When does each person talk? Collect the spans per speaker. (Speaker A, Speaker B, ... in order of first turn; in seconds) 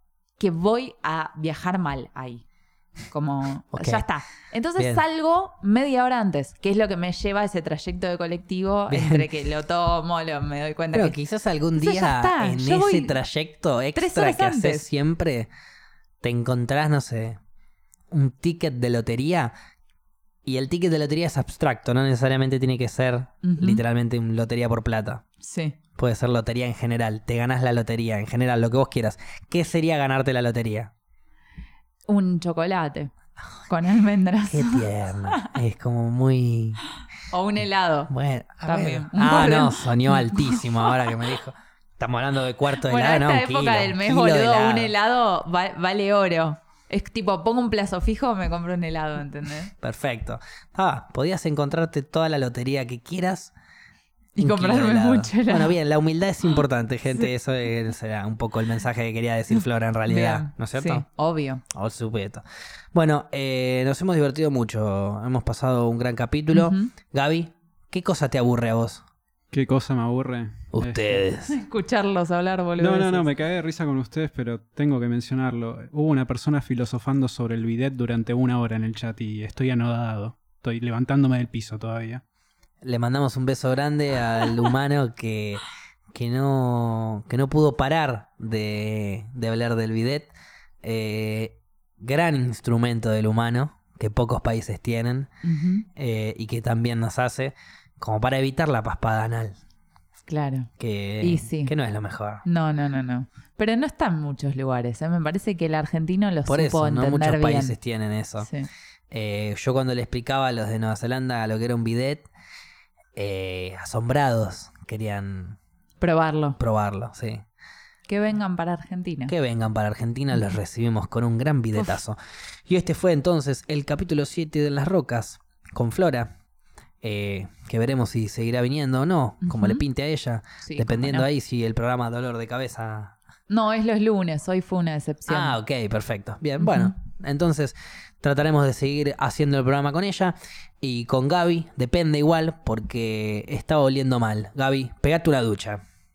Speaker A: 0.4-2.4, 3.1-11.2, 11.7-13.1, 13.9-14.9, 23.4-23.8, 25.4-25.8, 32.1-33.1, 33.7-35.5, 37.3-38.1, 38.7-41.1, 42.8-49.7, 54.4-55.8, 60.0-61.6, 66.5-66.9, 71.5-73.3, 95.4-95.9, 100.3-100.7, 101.2-101.7, 102.4-107.8, 108.4-108.7, 116.0-116.6, 118.1-119.3, 129.4-129.8, 130.6-131.3, 133.5-135.6, 136.6-136.9
Speaker B: 3.7-4.0, 4.8-5.0, 8.9-9.3, 10.9-15.5, 16.2-17.4, 18.1-19.5, 20.4-25.2, 26.0-30.9, 34.5-36.8, 38.1-44.9, 49.8-53.5, 54.4-61.0, 61.7-69.0, 70.7-71.5, 82.8-90.3, 90.8-95.3, 96.0-99.6, 100.8-102.4, 106.5-108.5, 109.1-112.3, 113.2-115.6, 116.6-117.4, 119.3-126.3, 127.0-133.1, 135.3-145.8
Speaker C: 69.5-71.2, 72.8-82.2